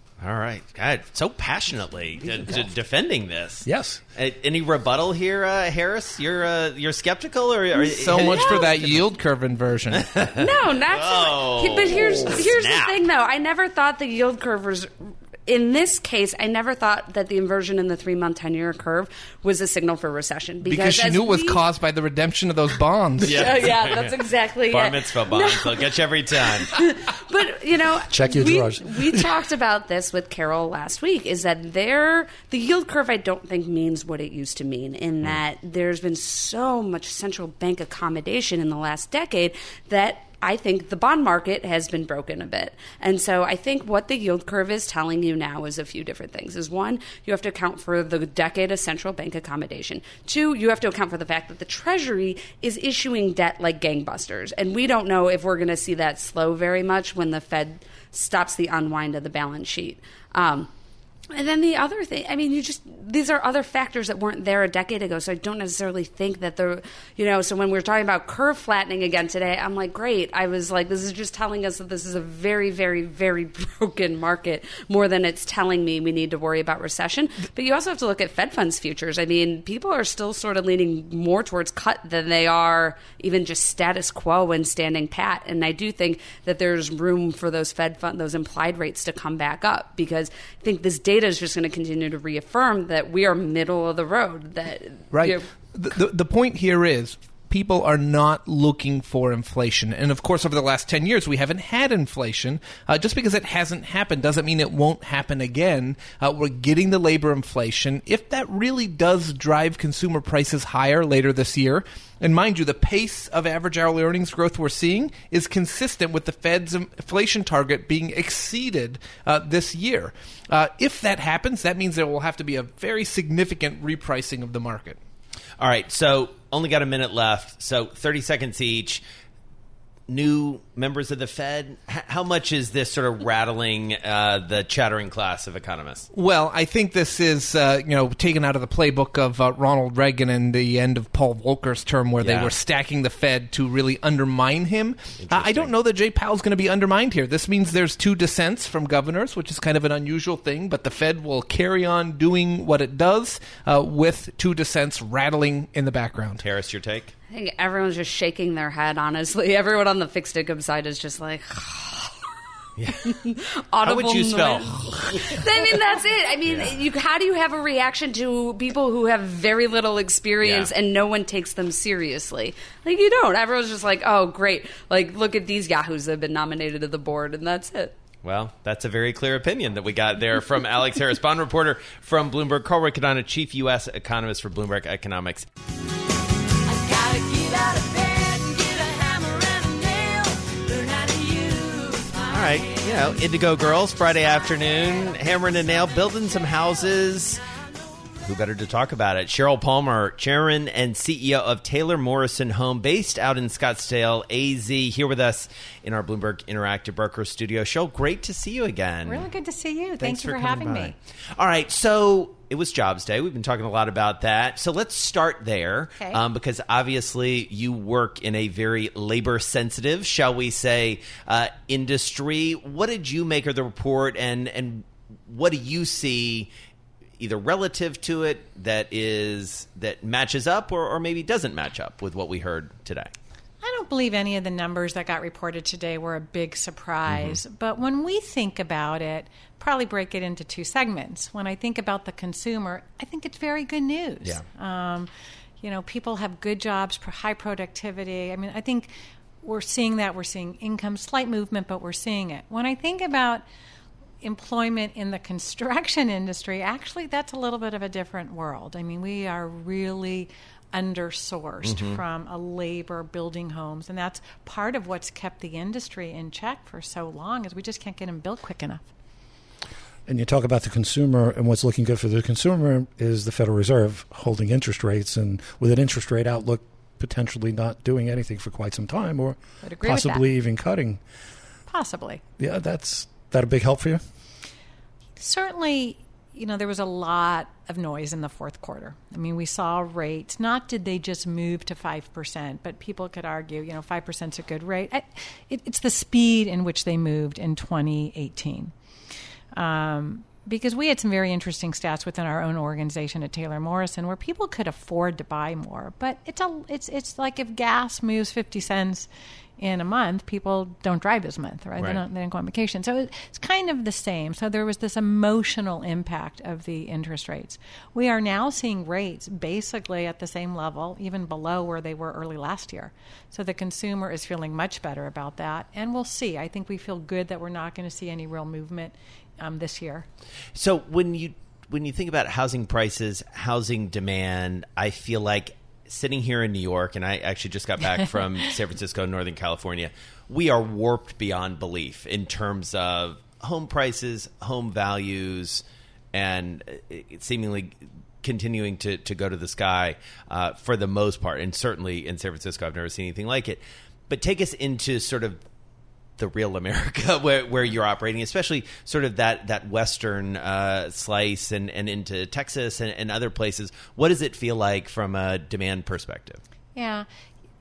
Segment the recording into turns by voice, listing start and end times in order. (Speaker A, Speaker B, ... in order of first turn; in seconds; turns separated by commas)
Speaker A: 0.2-9.0, Speaker B: 3.6-4.0, Speaker C: 7.9-10.1, Speaker D: 8.2-8.8, Speaker A: 10.0-13.0, Speaker D: 10.4-21.7, Speaker C: 20.6-23.5, Speaker D: 23.2-60.7, Speaker A: 23.2-26.8, Speaker B: 28.1-29.4, Speaker D: 61.3-95.5, Speaker C: 95.1-125.0, Speaker A: 125.6-129.0, Speaker A: 130.1-136.1, Speaker C: 136.1-156.4, Speaker A: 142.2-142.5, Speaker A: 145.2-145.7, Speaker A: 156.4-157.1, Speaker D: 157.3-162.2, Speaker A: 162.8-163.2, Speaker D: 163.0-177.9, Speaker A: 163.8-165.4, Speaker A: 166.5-166.7, Speaker A: 170.4-170.7, Speaker A: 178.2-185.5, Speaker A: 192.2-197.4, Speaker A: 198.2-209.3, Speaker E: 209.1-210.9, Speaker A: 210.0-226.5, Speaker A: 227.2-233.1, Speaker E: 233.6-253.4, Speaker A: 237.1-237.4, Speaker E: 254.2-268.9, Speaker A: 261.6-262.0, Speaker B: 270.1-281.0, Speaker E: 279.6-280.3, Speaker E: 281.7-282.2, Speaker B: 282.4-284.0, Speaker E: 285.2-298.7, Speaker E: 299.6-330.1, Speaker A: 311.8-312.0, Speaker A: 330.6-355.4, Speaker A: 356.2-366.4, Speaker E: 366.8-367.1